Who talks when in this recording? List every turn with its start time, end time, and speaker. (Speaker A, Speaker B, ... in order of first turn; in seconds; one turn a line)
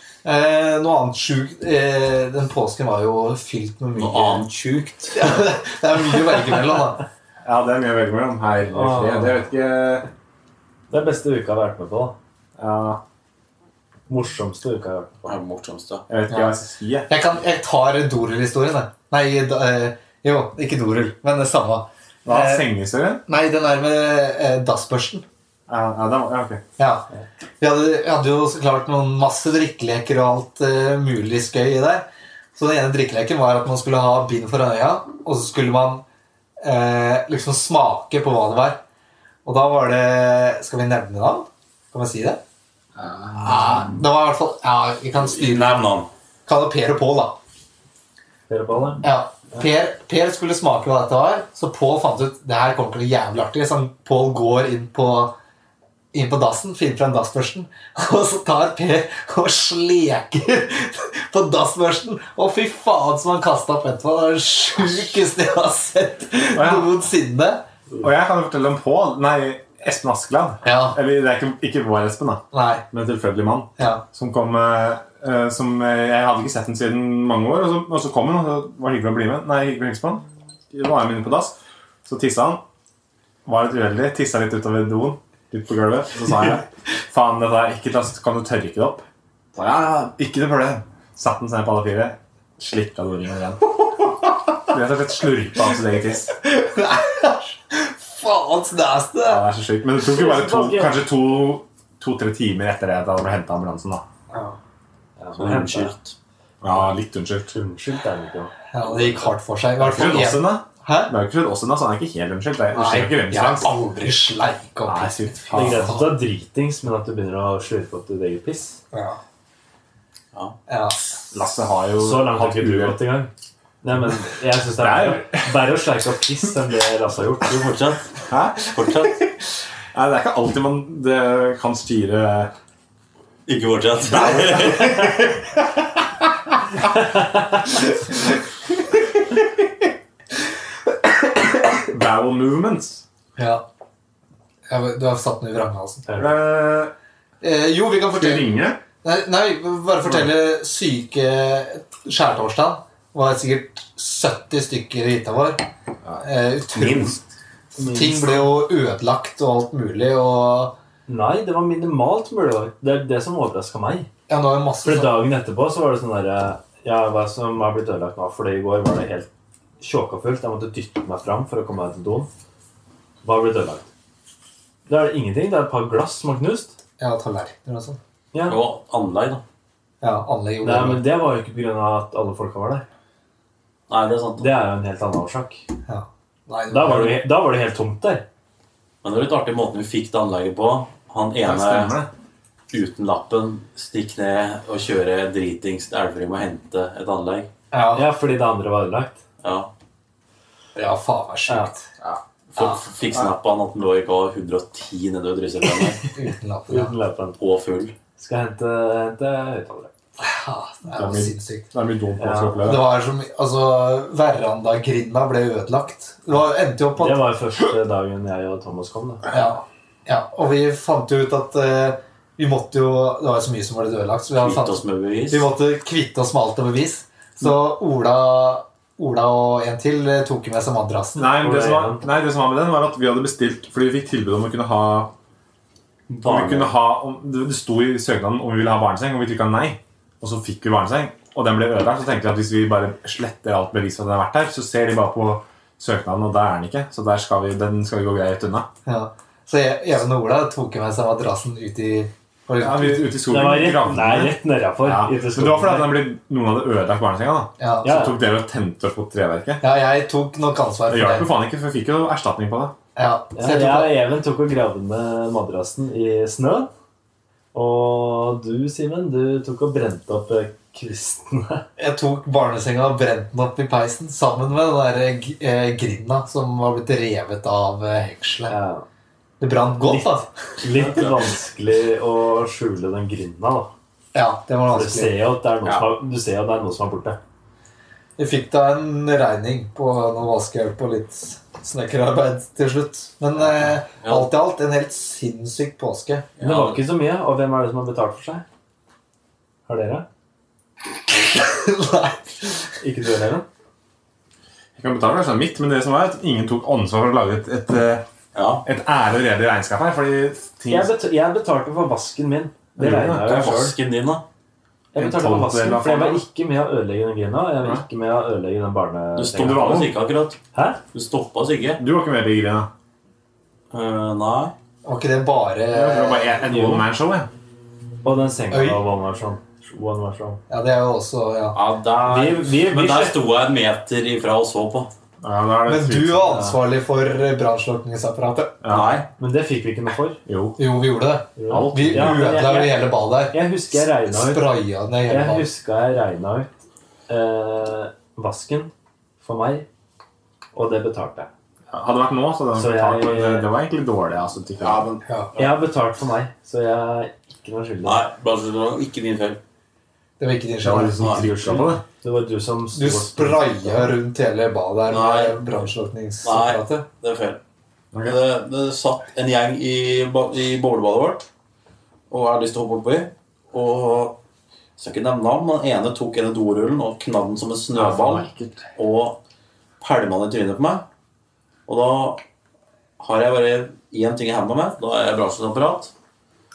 Speaker A: 0.2-4.4
Speaker B: 4.0-5.5
Speaker A: 5.1-7.1
Speaker C: 7.4-10.1
Speaker D: 8.7-9.4
Speaker D: 10.9-12.2
Speaker C: 12.6-13.0
Speaker D: 14.1-15.1
Speaker B: 15.2-16.1
Speaker C: 16.1-17.1
Speaker A: 17.1-22.7
Speaker C: 22.2-23.2
Speaker A: 23.3-25.2
Speaker C: 25.7-26.6
Speaker A: 26.8-27.1
Speaker A: 27.6-36.0
Speaker A: 36.6-38.8
Speaker A: 39.5-42.4
Speaker A: 43.4-45.8
Speaker B: 45.2-46.1
Speaker A: 46.5-47.4
Speaker D: 48.5-49.1
Speaker A: 49.0-55.4
Speaker A: 56.1-67.7
Speaker C: 66.5-66.9
Speaker C: 68.0-82.6
Speaker A: 70.6-71.0
Speaker A: 72.5-72.8
Speaker A: 73.8-74.0
Speaker C: 83.5-93.7
Speaker C: 94.7-96.4
Speaker A: 96.4-99.4
Speaker C: 99.2-104.0
Speaker D: 100.0-101.0
Speaker A: 104.3-104.6
Speaker D: 105.2-105.9
Speaker B: 105.4-106.1
Speaker C: 106.6-107.5
Speaker D: 107.5-108.5
Speaker A: 108.7-111.1
Speaker C: 109.8-113.8
Speaker A: 112.7-116.1
Speaker C: 114.9-115.9
Speaker D: 115.5-118.8
Speaker A: 118.9-119.2
Speaker A: 120.7-121.0
Speaker C: 121.3-123.0
Speaker D: 122.0-123.3
Speaker D: 123.8-127.7
Speaker C: 124.8-125.6
Speaker B: 127.4-129.3
Speaker C: 128.3-128.6
Speaker C: 129.9-132.5
Speaker B: 133.5-135.2
Speaker C: 134.1-134.9
Speaker C: 141.8-143.0
Speaker A: 143.4-143.6
Speaker A: 144.7-146.1
Speaker D: 146.1-146.3
Speaker C: 146.2-146.9
Speaker A: 147.4-155.7
Speaker C: 148.1-148.8
Speaker A: 156.2-157.2
Speaker D: 157.8-158.5
Speaker A: 157.8-160.7
Speaker D: 161.1-164.1
Speaker A: 164.3-165.2
Speaker D: 164.8-169.3
Speaker D: 169.8-172.3
Speaker D: 173.2-173.9
Speaker D: 174.9-176.8
Speaker A: 177.0-178.0
Speaker D: 178.3-178.6
Speaker B: 178.4-179.4
Speaker A: 180.0-181.0
Speaker D: 180.6-182.8
Speaker B: 183.9-184.5
Speaker D: 184.4-185.6
Speaker A: 185.9-187.2
Speaker D: 186.7-188.2
Speaker B: 189.0-192.0
Speaker C: 191.4-192.1
Speaker B: 192.7-197.5
Speaker A: 197.7-198.1
Speaker D: 197.9-199.2
Speaker B: 199.4-199.7
Speaker A: 200.8-201.9
Speaker D: 201.5-201.7
Speaker B: 202.5-206.0
Speaker A: 206.1-206.9
Speaker D: 206.7-207.4
Speaker B: 207.4-207.9
Speaker D: 208.2-209.9
Speaker A: 210.2-211.7
Speaker C: 210.9-212.8
Speaker D: 212.2-212.7
Speaker A: 212.6-217.2
Speaker D: 217.0-219.2
Speaker A: 219.3-231.3
Speaker B: 224.3-225.5
Speaker C: 231.2-235.1
Speaker D: 231.4-232.1
Speaker B: 236.1-236.8
Speaker C: 236.2-248.7
Speaker A: 248.9-253.1
Speaker C: 252.6-259.6
Speaker D: 253.3-256.1
Speaker A: 257.6-258.0
Speaker D: 257.8-258.2
Speaker A: 259.6-261.3
Speaker C: 260.9-262.8
Speaker A: 263.0-263.9
Speaker D: 263.4-266.7
Speaker D: 267.5-271.6
Speaker A: 271.8-278.6
Speaker D: 278.5-278.9
Speaker A: 279.4-280.3
Speaker D: 280.6-283.7
Speaker B: 280.7-281.2
Speaker A: 284.1-285.2
Speaker D: 284.7-287.2
Speaker A: 288.2-296.3
Speaker B: 293.4-294.3
Speaker B: 296.4-296.8
Speaker D: 296.4-298.4
Speaker D: 299.7-300.1
Speaker A: 301.2-302.6
Speaker D: 302.8-303.5
Speaker C: 304.8-308.1
Speaker B: 308.3-308.7
Speaker C: 308.6-310.9
Speaker D: 310.7-313.8
Speaker C: 312.8-313.5
Speaker B: 313.2-314.2
Speaker D: 314.9-319.9
Speaker C: 315.0-316.2
Speaker B: 319.1-320.4
Speaker C: 319.4-319.9
Speaker D: 320.5-320.8
Speaker B: 320.9-321.8
Speaker C: 321.8-322.7
Speaker B: 323.7-324.5
Speaker A: 324.9-326.4
Speaker C: 325.7-327.3
Speaker D: 326.5-326.9
Speaker D: 328.0-330.4
Speaker A: 328.5-328.8
Speaker A: 330.5-331.6
Speaker B: 331.5-334.9
Speaker D: 332.1-333.2
Speaker C: 335.2-336.5
Speaker A: 335.7-338.6
Speaker C: 338.6-339.0
Speaker B: 338.7-339.1
Speaker D: 339.2-340.2
Speaker C: 340.3-340.6
Speaker A: 340.6-345.5
Speaker D: 341.4-344.5
Speaker C: 341.5-342.4
Speaker D: 345.1-346.6
Speaker D: 347.1-349.7
Speaker D: 350.6-351.3
Speaker C: 351.7-354.9
Speaker D: 352.5-353.5
Speaker A: 355.1-355.3
Speaker D: 355.4-358.1
Speaker B: 357.9-359.4
Speaker A: 360.2-361.7
Speaker C: 360.6-361.8
Speaker B: 361.0-361.3
Speaker D: 362.0-363.9
Speaker A: 362.7-366.9
Speaker B: 364.9-365.4
Speaker B: 366.2-367.4
Speaker B: 368.0-371.2
Speaker B: 372.1-374.2
Speaker B: 374.8-379.2
Speaker C: 377.7-378.6
Speaker B: 379.8-380.9
Speaker B: 381.7-382.2
Speaker B: 383.0-385.9